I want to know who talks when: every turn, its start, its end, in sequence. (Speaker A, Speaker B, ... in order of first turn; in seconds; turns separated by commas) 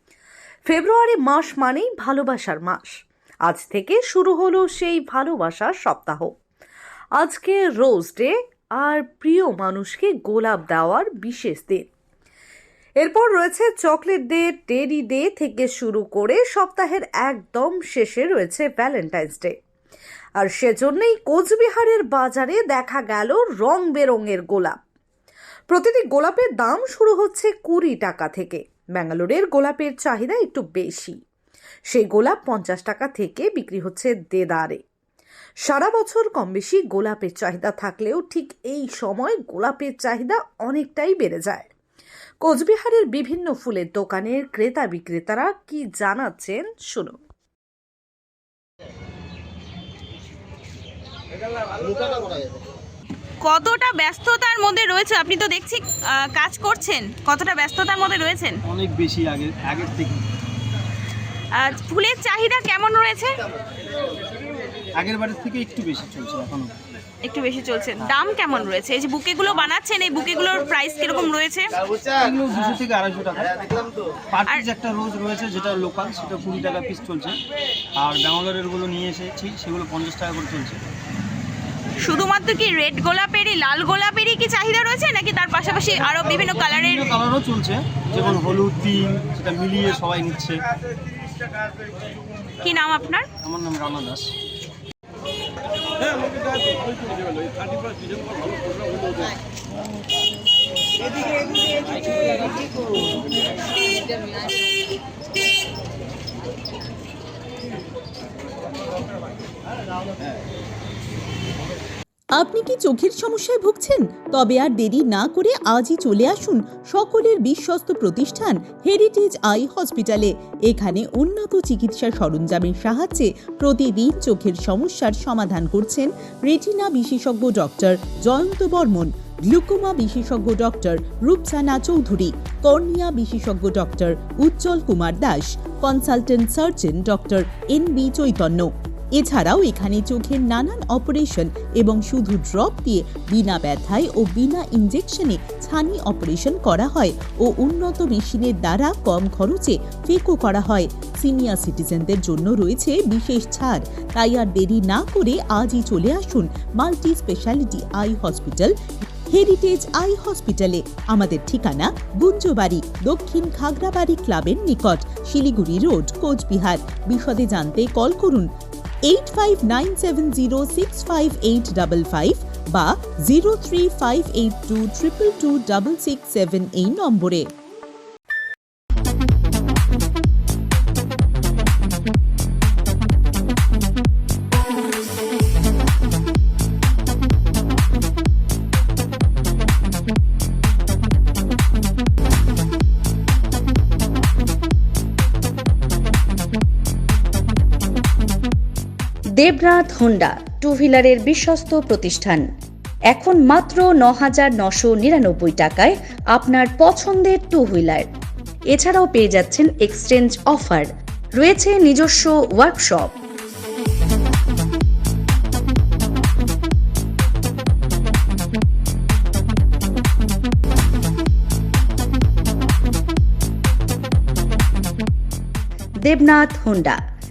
Speaker A: 0.7-6.3, Speaker A: 7.2-11.9, Speaker A: 13.0-19.6, Speaker A: 20.4-24.8, Speaker A: 25.7-31.2, Speaker A: 31.9-34.8, Speaker A: 35.6-41.7, Speaker A: 42.4-47.2, Speaker B: 53.4-58.6, Speaker C: 58.7-60.2, Speaker B: 61.6-63.3, Speaker C: 65.0-66.7, Speaker B: 67.2-71.7, Speaker C: 72.0-77.4, Speaker C: 78.0-80.8, Speaker B: 82.0-87.1, Speaker C: 86.8-90.6, Speaker B: 92.6-93.3, Speaker C: 93.4-94.3, Speaker D: 112.4-158.7, Speaker D: 159.3-168.5, Speaker D: 169.1-177.5, Speaker E: 199.4-202.5, Speaker E: 203.1-208.1, Speaker E: 208.7-213.2, Speaker E: 226.0-227.0